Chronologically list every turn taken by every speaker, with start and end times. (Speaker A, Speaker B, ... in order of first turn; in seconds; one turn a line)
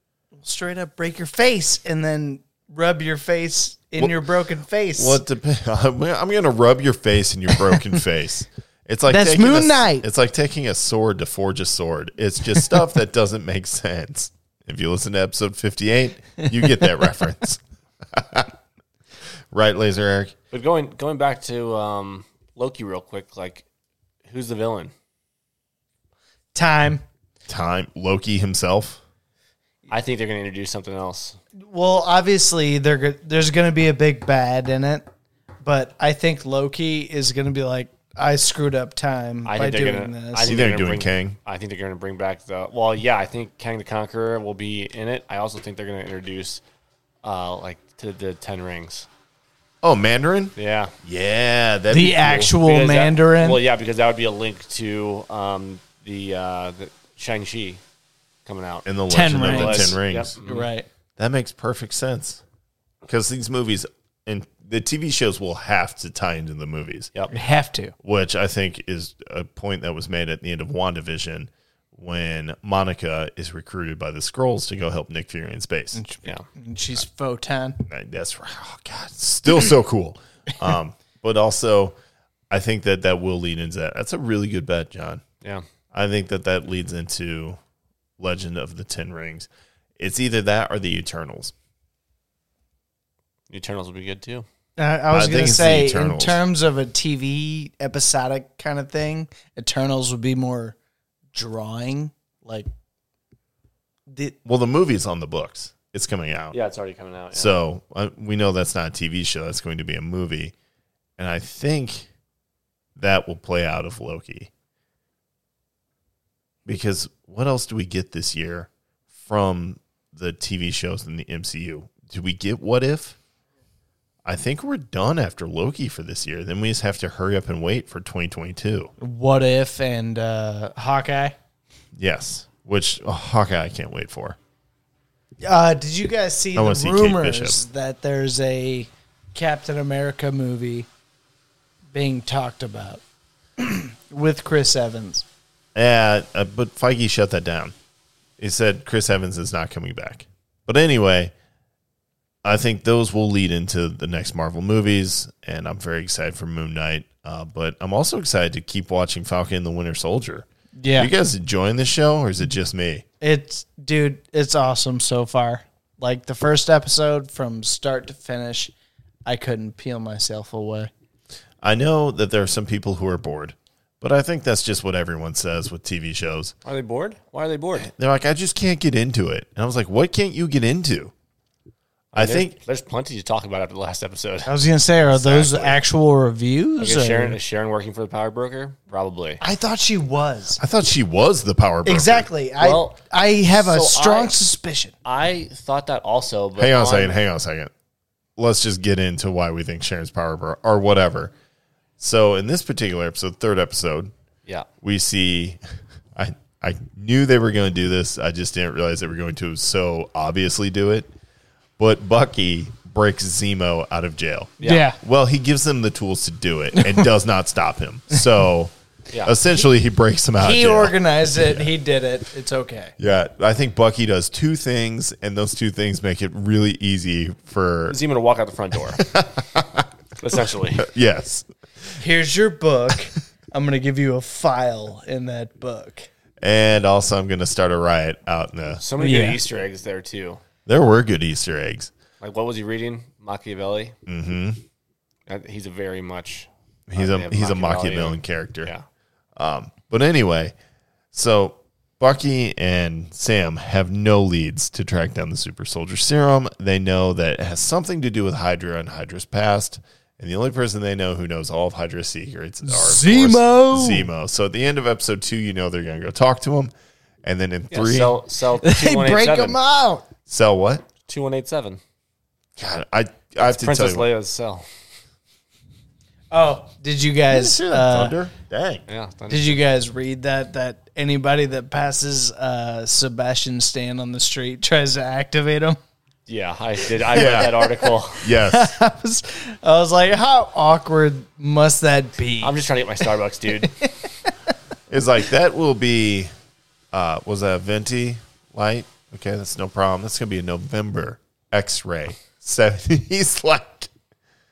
Speaker A: 0.4-5.2
Speaker B: 5.0-18.5
Speaker A: 9.1-10.1
Speaker B: 19.5-20.4
Speaker C: 20.5-23.6
Speaker C: 24.2-24.9
Speaker A: 26.5-27.0
Speaker B: 27.5-29.0
Speaker C: 29.9-31.4
Speaker A: 31.6-35.1
Speaker A: 35.6-40.5
Speaker C: 39.5-46.6
Speaker B: 40.4-41.4
Speaker C: 47.2-49.1
Speaker B: 49.8-52.5
Speaker C: 50.5-50.9
Speaker A: 51.9-53.6
Speaker C: 52.6-57.8
Speaker C: 58.5-60.7
Speaker B: 58.8-60.3
Speaker A: 59.1-60.9
Speaker B: 61.2-62.4
Speaker B: 63.0-67.1
Speaker A: 67.3-67.9
Speaker B: 68.0-76.0
Speaker A: 75.9-77.8
Speaker B: 77.8-82.0
Speaker B: 82.5-85.2
Speaker B: 85.9-87.6
Speaker B: 88.2-91.5
Speaker C: 93.5-94.4
Speaker A: 94.8-100.8
Speaker B: 95.1-96.4
Speaker A: 101.3-102.7
Speaker A: 104.1-104.3
Speaker B: 104.4-106.6
Speaker C: 106.5-107.5
Speaker B: 107.3-110.5
Speaker B: 111.2-112.1
Speaker B: 113.0-114.5
Speaker B: 116.7-123.2
Speaker B: 124.2-128.9
Speaker A: 129.0-131.3
Speaker B: 131.9-134.4
Speaker A: 135.4-140.9
Speaker B: 136.5-137.6
Speaker A: 141.9-143.0
Speaker A: 143.6-145.2
Speaker B: 145.7-147.7
Speaker B: 148.4-151.3
Speaker B: 152.4-163.0
Speaker A: 160.8-161.1
Speaker A: 163.2-168.7
Speaker A: 169.2-170.9
Speaker B: 171.6-176.5
Speaker C: 176.6-177.9
Speaker B: 177.8-181.1
Speaker B: 182.1-182.6
Speaker C: 182.1-184.6
Speaker A: 184.4-187.4
Speaker C: 185.1-185.8
Speaker C: 186.8-189.4
Speaker A: 189.4-190.6
Speaker B: 190.6-192.3
Speaker A: 191.8-194.9
Speaker C: 192.6-192.9
Speaker C: 193.5-194.3
Speaker C: 195.0-197.2
Speaker B: 196.6-197.7
Speaker B: 198.4-201.3
Speaker B: 202.0-204.1
Speaker B: 204.8-205.6
Speaker B: 206.1-211.1
Speaker B: 211.8-218.7
Speaker C: 214.6-214.9
Speaker A: 214.6-215.0
Speaker A: 216.8-217.0
Speaker B: 219.2-221.7
Speaker A: 220.4-222.9
Speaker B: 223.0-228.0
Speaker C: 227.9-229.1
Speaker B: 229.0-229.9
Speaker C: 230.2-230.9
Speaker B: 230.7-232.0
Speaker A: 232.0-236.1
Speaker B: 236.4-238.8
Speaker C: 238.8-240.4
Speaker A: 239.0-239.4
Speaker B: 240.7-241.9
Speaker C: 242.2-243.9
Speaker B: 244.1-244.6
Speaker C: 245.3-248.8
Speaker B: 246.9-248.7
Speaker B: 249.3-250.5
Speaker B: 251.1-266.7
Speaker A: 262.6-264.1
Speaker B: 267.2-268.2
Speaker C: 267.7-269.6
Speaker A: 268.6-270.0
Speaker B: 270.3-270.8
Speaker C: 271.1-271.8
Speaker B: 272.6-274.1
Speaker C: 273.4-274.6
Speaker A: 276.3-278.1
Speaker B: 277.3-278.8
Speaker C: 278.9-279.6
Speaker A: 279.3-285.8
Speaker C: 286.3-288.3
Speaker B: 287.1-287.6
Speaker A: 287.2-287.5
Speaker B: 288.2-288.7
Speaker A: 288.4-292.6
Speaker C: 292.4-293.8
Speaker A: 293.6-294.3
Speaker B: 294.9-296.3
Speaker B: 296.9-303.9